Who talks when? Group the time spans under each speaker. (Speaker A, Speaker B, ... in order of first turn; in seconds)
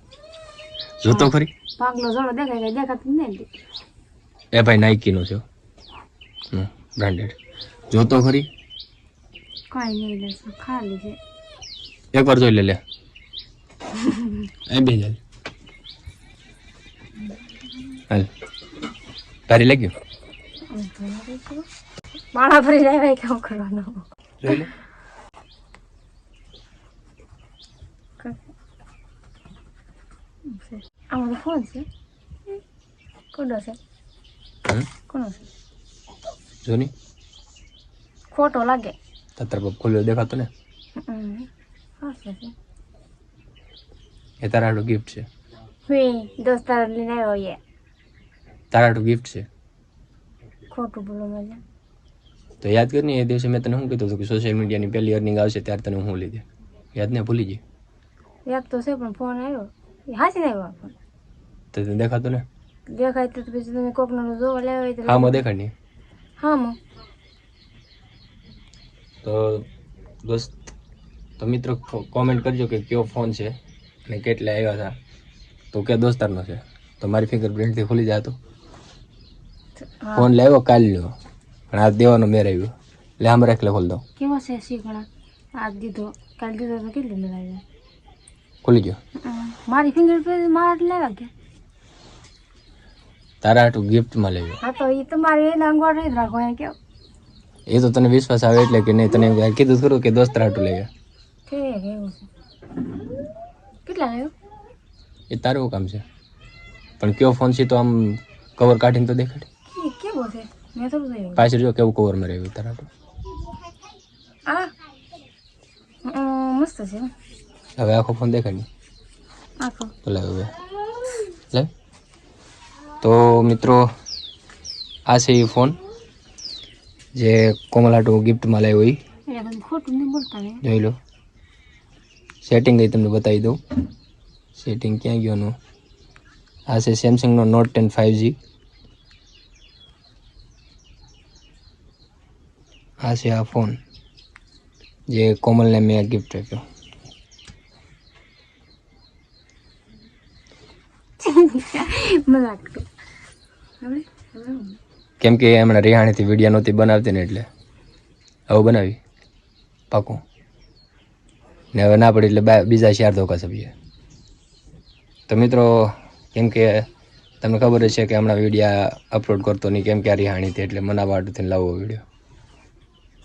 Speaker A: 1.0-1.5, 4.5-5.5, 6.5-7.4, 7.9-8.5, 12.1-12.8, 14.7-15.2, 19.5-19.9, 24.4-24.7, 36.6-36.9, 39.4-40.5, 44.4-45.3, 48.7-49.5, 52.6-57.6, 61.7-62.5, 65.0-65.7, 69.2-69.7, 70.2-70.7, 71.4-75.0, 75.7-78.4, 80.2-81.1, 81.7-84.0, 88.6-89.0, 93.4-94.6, 97.7-100.9, 105.3-106.0, 107.0-109.5, 111.4-112.9, 117.8-118.7, 120.0-120.5, 123.0-123.9, 125.1-125.8, 127.2-129.0, 130.6-131.0, 132.4-133.6, 134.6-135.6, 136.7-138.4, 143.0-143.8, 145.1-146.6, 155.2-157.5, 158.5-159.0, 159.9-160.2, 161.7-163.7, 165.3-166.9, 167.4-172.0
Speaker B: 1.1-3.5, 9.7-11.2, 13.9-14.5, 20.7-21.7, 22.3-24.7, 30.4-31.9, 33.3-33.8, 35.1-35.4, 38.3-39.0, 41.0-41.5, 42.0-42.5, 45.9-47.6, 50.7-51.6, 58.5-61.0, 62.9-65.4, 66.4-66.8, 79.8-80.3, 84.2-87.6, 89.2-91.3, 94.6-96.8, 101.5-102.3, 103.9-104.3, 109.7-111.5, 114.5-114.7, 116.0-117.1, 119.6-119.9, 129.3-130.6, 151.2-152.9, 153.8-154.8